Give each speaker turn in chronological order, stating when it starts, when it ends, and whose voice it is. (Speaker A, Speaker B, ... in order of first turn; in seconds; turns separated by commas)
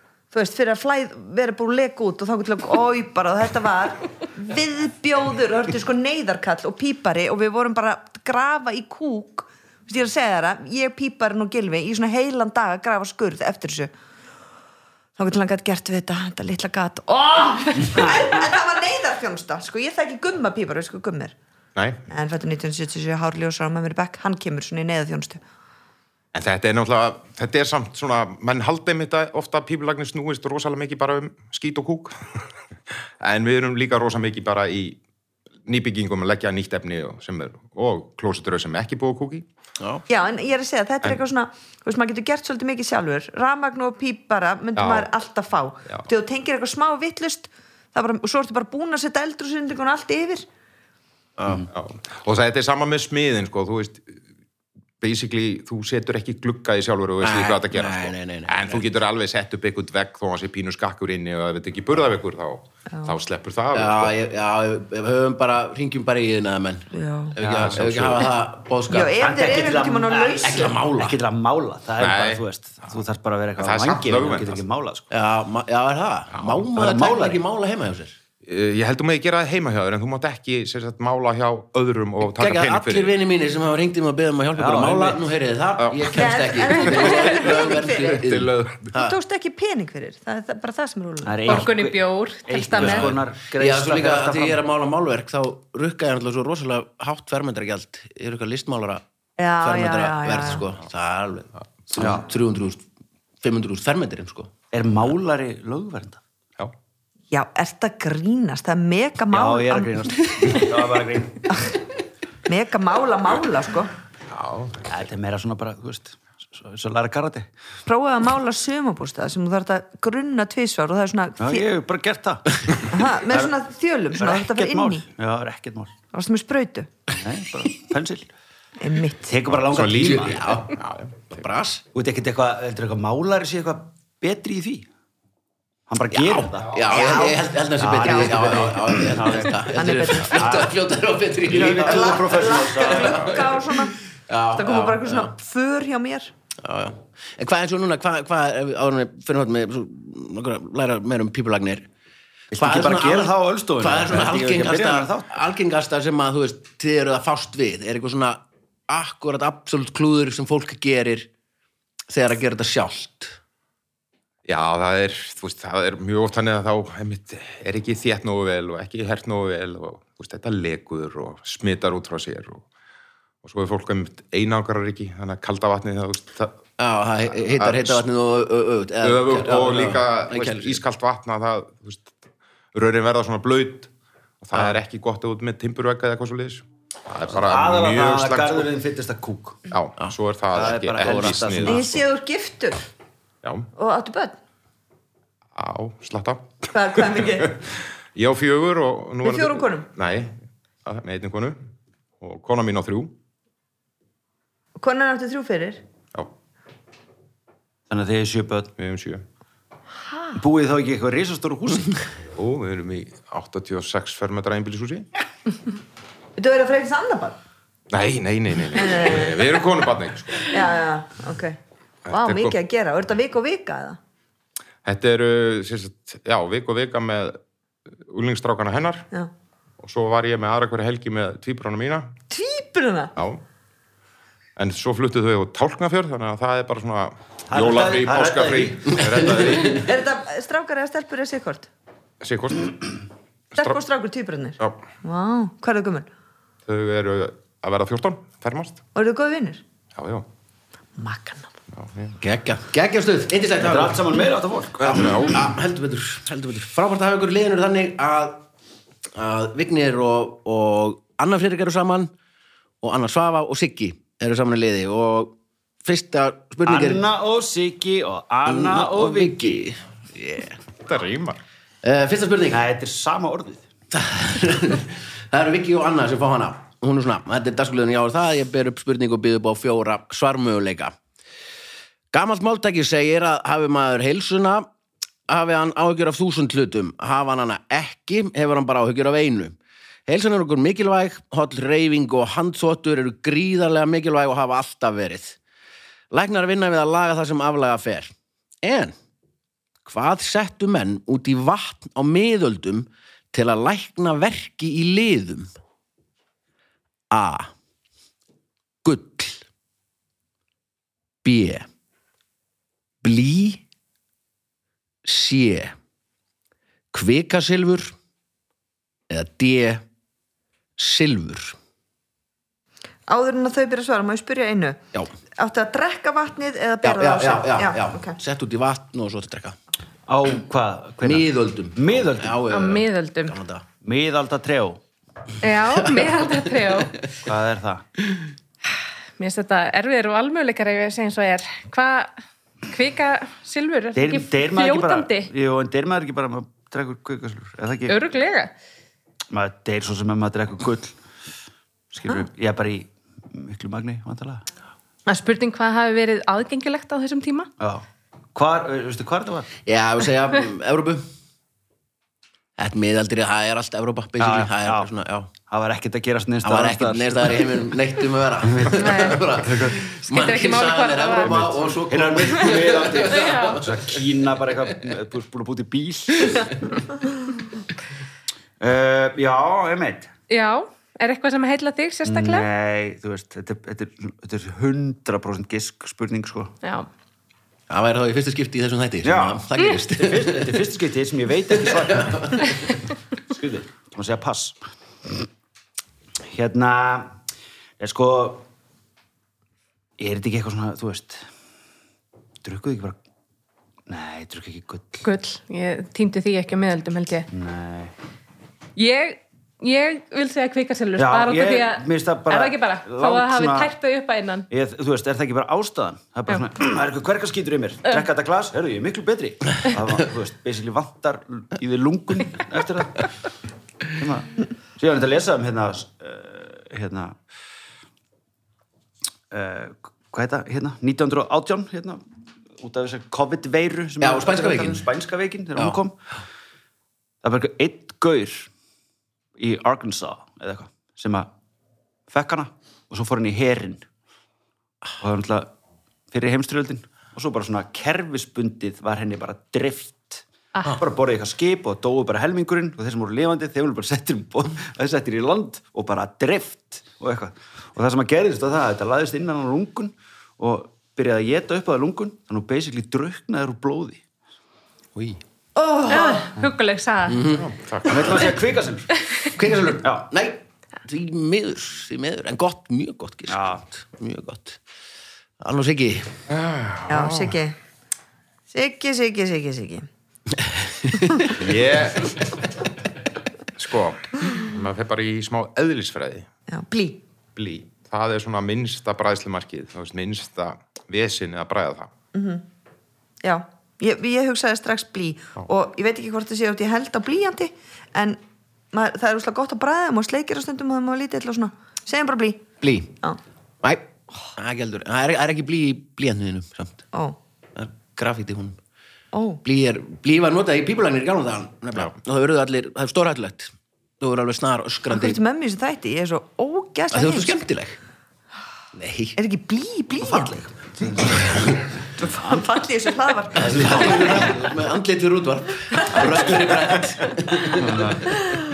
Speaker A: 0.3-13.9, Speaker A: 15.2-21.4, Speaker B: 21.8-22.0, Speaker A: 22.1-25.4, Speaker B: 26.3-32.1, Speaker B: 33.2-35.0, Speaker B: 35.6-39.5, Speaker A: 40.1-50.5, Speaker B: 44.8-45.1, Speaker C: 51.4-51.7, Speaker B: 51.7-54.1, Speaker B: 55.0-64.2, Speaker C: 57.2-58.9, Speaker C: 63.7-69.4, Speaker A: 66.9-67.4, Speaker B: 67.4-68.3, Speaker D: 67.4-67.9, Speaker A: 68.9-70.8, Speaker D: 69.0-75.1, Speaker C: 70.4-71.2, Speaker B: 72.0-72.4, Speaker B: 73.6-74.6, Speaker C: 75.1-78.2, Speaker B: 76.3-76.7, Speaker D: 76.7-77.4, Speaker B: 78.5-83.2, Speaker C: 82.2-89.2, Speaker D: 84.6-85.2, Speaker B: 85.8-86.1, Speaker A: 86.1-88.3, Speaker B: 86.8-88.9, Speaker A: 88.9-91.6, Speaker D: 91.2-94.6, Speaker E: 91.5-93.1, Speaker C: 92.8-99.0, Speaker A: 99.4-100.6, Speaker C: 99.6-102.8, Speaker D: 102.0-102.3, Speaker C: 103.4-104.5, Speaker D: 104.7-106.2, Speaker A: 107.3-110.7, Speaker D: 109.3-111.6, Speaker A: 111.5-111.8, Speaker A: 112.5-113.9, Speaker B: 114.3-114.9, Speaker D: 114.9-117.5, Speaker A: 117.9-121.7, Speaker D: 121.4-123.5, Speaker A: 122.9-125.1, Speaker D: 124.2-125.9, Speaker A: 126.1-126.9, Speaker D: 127.1-128.3, Speaker A: 128.8-129.4, Speaker D: 129.2-130.5, Speaker B: 129.5-131.4, Speaker C: 129.8-130.8, Speaker C: 131.3-131.8, Speaker D: 131.9-134.9, Speaker D: 135.9-136.8, Speaker C: 136.1-143.7, Speaker A: 136.9-138.4, Speaker D: 137.8-140.8, Speaker A: 139.7-140.6, Speaker D: 141.4-143.2, Speaker A: 141.7-143.9, Speaker C: 144.3-145.3, Speaker A: 144.5-146.3, Speaker C: 146.6-151.9, Speaker D: 152.5-155.3, Speaker C: 152.5-161.3, Speaker C: 162.1-163.4, Speaker B: 164.5-172.7, Speaker B: 173.4-176.6, Speaker C: 176.8-180.8, Speaker B: 177.3-178.0, Speaker B: 179.0-182.2, Speaker B: 182.7-183.9, Speaker B: 184.4-188.7, Speaker D: 187.3-189.7, Speaker B: 189.7-191.9, Speaker D: 190.5-191.9, Speaker C: 191.1-191.3, Speaker A: 191.6-192.8, Speaker B: 193.4-193.7, Speaker A: 193.8-194.4, Speaker B: 195.6-201.6, Speaker A: 196.7-197.6, Speaker A: 199.2-199.9, Speaker B: 202.2-203.2, Speaker A: 204.8-205.8, Speaker D: 207.9-208.7, Speaker B: 208.8-209.2, Speaker D: 210.3-212.0, Speaker B: 212.3-215.1, Speaker A: 216.4-217.4, Speaker B: 217.9-220.6, Speaker A: 218.7-219.5, Speaker A: 220.5-221.6, Speaker B: 222.1-222.6, Speaker A: 222.1-224.0, Speaker B: 224.8-227.4, Speaker B: 228.0-229.1, Speaker B: 229.8-232.1, Speaker A: 232.3-233.1, Speaker B: 233.2-233.4, Speaker B: 234.6-239.9, Speaker D: 237.5-239.4, Speaker A: 239.7-241.7, Speaker B: 242.2-242.8, Speaker A: 243.6-246.1, Speaker B: 246.7-248.8, Speaker A: 248.9-249.6, Speaker B: 249.9-250.3, Speaker A: 251.0-251.5, Speaker B: 251.7-252.2, Speaker C: 252.2-254.1, Speaker D: 253.6-255.3, Speaker B: 254.8-255.4, Speaker C: 254.8-258.5, Speaker C: 259.2-262.1, Speaker C: 262.8-267.1, Speaker D: 266.7-269.6, Speaker C: 268.4-270.6, Speaker B: 270.8-271.4, Speaker C: 271.8-272.7, Speaker D: 272.5-273.6, Speaker C: 273.9-280.9, Speaker C: 282.1-284.7, Speaker C: 285.3-295.4, Speaker C: 296.1-298.9, Speaker C: 299.9-305.5, Speaker C: 307.1-307.5, Speaker C: 308.8-309.4, Speaker C: 311.2-311.7, Speaker C: 313.0-313.6, Speaker C: 315.1-315.8, Speaker C: 316.9-317.9, Speaker C: 319.1-319.8, Speaker C: 320.8-321.6, Speaker A: 323.1-328.2, Speaker C: 326.8-329.6, Speaker D: 330.1-332.4, Speaker C: 331.0-333.6, Speaker E: 332.5-333.4, Speaker D: 333.8-334.8, Speaker E: 335.4-337.1, Speaker C: 335.8-336.4, Speaker D: 337.2-337.8, Speaker E: 339.2-342.1, Speaker E: 342.6-345.3, Speaker D: 344.0-348.0, Speaker E: 347.9-348.5, Speaker D: 349.3-351.0, Speaker D: 351.9-354.4, Speaker E: 355.1-357.5, Speaker D: 357.6-359.5, Speaker C: 359.6-361.1, Speaker C: 362.6-365.3, Speaker D: 364.2-364.9, Speaker D: 365.5-367.5, Speaker C: 366.4-373.9, Speaker D: 368.4-369.8, Speaker E: 368.7-369.2, Speaker E: 370.0-371.6, Speaker D: 371.2-376.8, Speaker E: 373.1-373.6, Speaker D: 378.6-380.1, Speaker E: 380.3-382.5, Speaker D: 382.1-386.5, Speaker E: 386.6-386.9, Speaker C: 387.7-390.6, Speaker D: 389.0-389.4, Speaker D: 390.0-395.2, Speaker C: 391.6-392.6, Speaker D: 396.3-397.1, Speaker D: 397.8-398.5, Speaker D: 400.0-401.3, Speaker D: 402.4-403.0, Speaker D: 403.9-405.1, Speaker E: 405.0-407.3, Speaker D: 407.3-407.9, Speaker E: 408.8-414.5, Speaker D: 411.0-413.7, Speaker D: 414.5-423.1, Speaker D: 423.9-427.2, Speaker D: 429.3-432.0, Speaker D: 432.6-436.0, Speaker C: 434.0-434.9, Speaker D: 437.2-438.5, Speaker D: 439.4-441.3, Speaker D: 442.1-443.9, Speaker D: 445.0-445.5, Speaker D: 446.1-464.0, Speaker A: 465.6-466.3, Speaker E: 465.9-467.2, Speaker C: 467.1-467.5, Speaker B: 467.2-468.4, Speaker D: 467.9-469.0, Speaker C: 469.3-474.6, Speaker D: 473.3-473.6, Speaker C: 475.4-476.2, Speaker B: 476.3-477.4, Speaker A: 476.9-477.6, Speaker A: 478.5-479.9, Speaker C: 480.4-481.3, Speaker B: 481.3-482.4, Speaker B: 483.6-486.3, Speaker A: 486.5-487.0, Speaker B: 487.4-491.9, Speaker A: 492.1-492.4, Speaker A: 493.2-498.2, Speaker A: 498.7-502.5, Speaker C: 502.6-503.0, Speaker C: 503.6-506.9, Speaker A: 506.9-507.2, Speaker C: 507.6-508.6, Speaker A: 509.1-509.4, Speaker C: 509.4-515.2, Speaker A: 514.9-517.4, Speaker C: 516.9-517.8, Speaker C: 518.7-519.2, Speaker A: 519.2-520.5, Speaker C: 520.9-521.7, Speaker A: 522.0-524.3, Speaker C: 523.4-528.2, Speaker D: 523.5-524.3, Speaker D: 527.5-528.1